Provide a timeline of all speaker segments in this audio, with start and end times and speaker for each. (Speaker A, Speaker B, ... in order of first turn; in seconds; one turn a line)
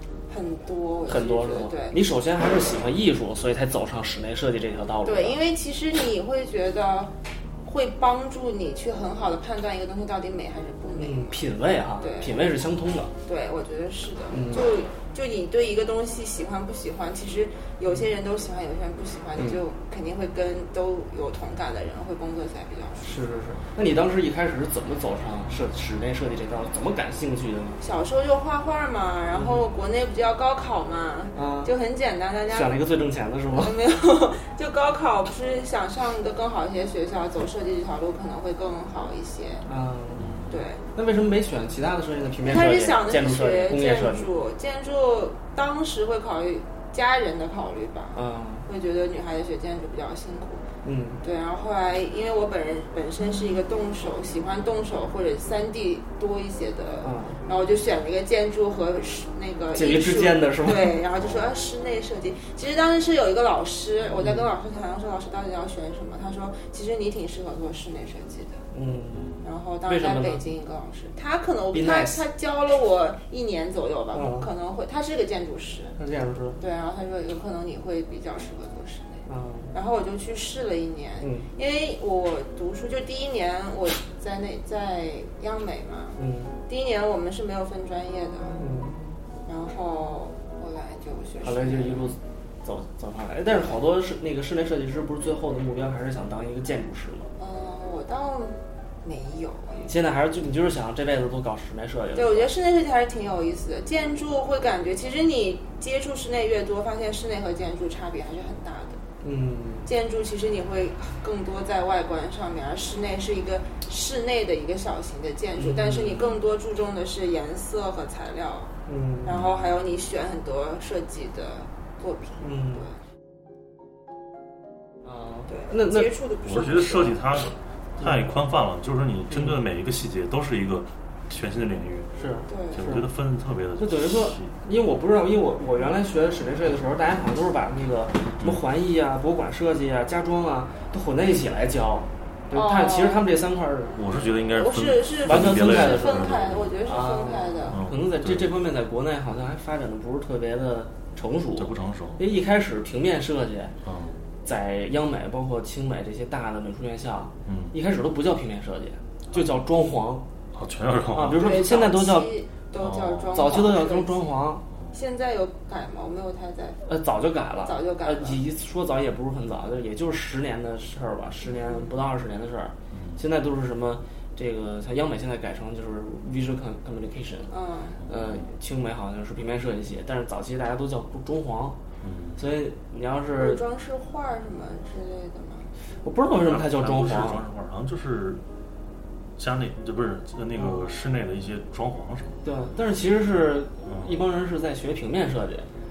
Speaker A: 0.3-2.0
Speaker B: 1.1-5.4
Speaker A: 5.0-11.5
Speaker B: 10.9-13.1
Speaker A: 12.0-12.5
Speaker A: 13.2-23.1
Speaker B: 14.3-14.7
Speaker B: 19.4-19.6
Speaker B: 23.0-27.8
Speaker A: 27.8-32.8
Speaker B: 29.3-29.7
Speaker B: 31.3-31.7
Speaker B: 32.5-33.8
Speaker A: 33.5-39.6
Speaker B: 39.6-40.4
Speaker C: 40.2-40.6
Speaker A: 40.5-40.8
Speaker B: 40.9-44.3
Speaker A: 42.4-50.6
Speaker B: 48.1-48.7
Speaker B: 50.8-51.2
Speaker A: 51.2-68.6
Speaker B: 57.0-57.4
Speaker B: 59.7-61.0
Speaker C: 61.1-61.5
Speaker B: 64.2-64.5
Speaker B: 68.7-69.3
Speaker C: 69.1-69.4
Speaker A: 69.4-76.0
Speaker B: 69.8-70.4
Speaker B: 71.7-72.2
Speaker B: 74.1-74.5
Speaker B: 76.0-76.6
Speaker A: 76.6-88.6
Speaker B: 79.3-79.7
Speaker B: 81.2-81.5
Speaker B: 86.2-86.5
Speaker B: 88.5-89.0
Speaker A: 89.5-92.2
Speaker B: 91.4-97.3
Speaker A: 93.5-93.8
Speaker A: 97.4-99.9
Speaker B: 99.8-102.5
Speaker A: 102.1-109.0
Speaker B: 109.2-109.9
Speaker A: 109.8-118.7
Speaker B: 115.5-116.4
Speaker B: 118.9-119.3
Speaker A: 119.2-123.0
Speaker C: 119.3-119.7
Speaker B: 122.4-122.8
Speaker B: 125.0-126.1
Speaker A: 125.5-127.3
Speaker C: 126.4-132.1
Speaker B: 128.0-128.4
Speaker B: 129.3-129.6
Speaker B: 132.2-133.1
Speaker A: 132.5-132.9
Speaker C: 132.7-134.5
Speaker B: 133.8-144.0
Speaker A: 142.5-143.3
Speaker C: 143.9-146.7
Speaker A: 144.5-147.8
Speaker B: 145.2-146.3
Speaker B: 146.8-153.7
Speaker C: 147.7-148.5
Speaker C: 151.6-152.2
Speaker C: 153.8-154.2
Speaker B: 154.4-160.2
Speaker C: 157.4-157.7
Speaker C: 159.3-159.6
Speaker C: 160.5-161.5
Speaker B: 161.1-162.4
Speaker A: 161.2-166.8
Speaker C: 162.8-163.5
Speaker B: 163.3-164.7
Speaker B: 166.8-177.5
Speaker A: 167.6-168.4
Speaker A: 171.4-172.0
Speaker C: 172.9-173.2
Speaker A: 177.5-178.0
Speaker C: 178.0-178.4
Speaker B: 178.1-181.8
Speaker C: 182.0-182.4
Speaker B: 182.4-183.6
Speaker A: 183.4-185.7
Speaker B: 186.0-187.4
Speaker C: 186.3-188.4
Speaker C: 189.4-192.4
Speaker B: 190.6-190.8
Speaker B: 192.4-195.7
Speaker C: 193.8-194.2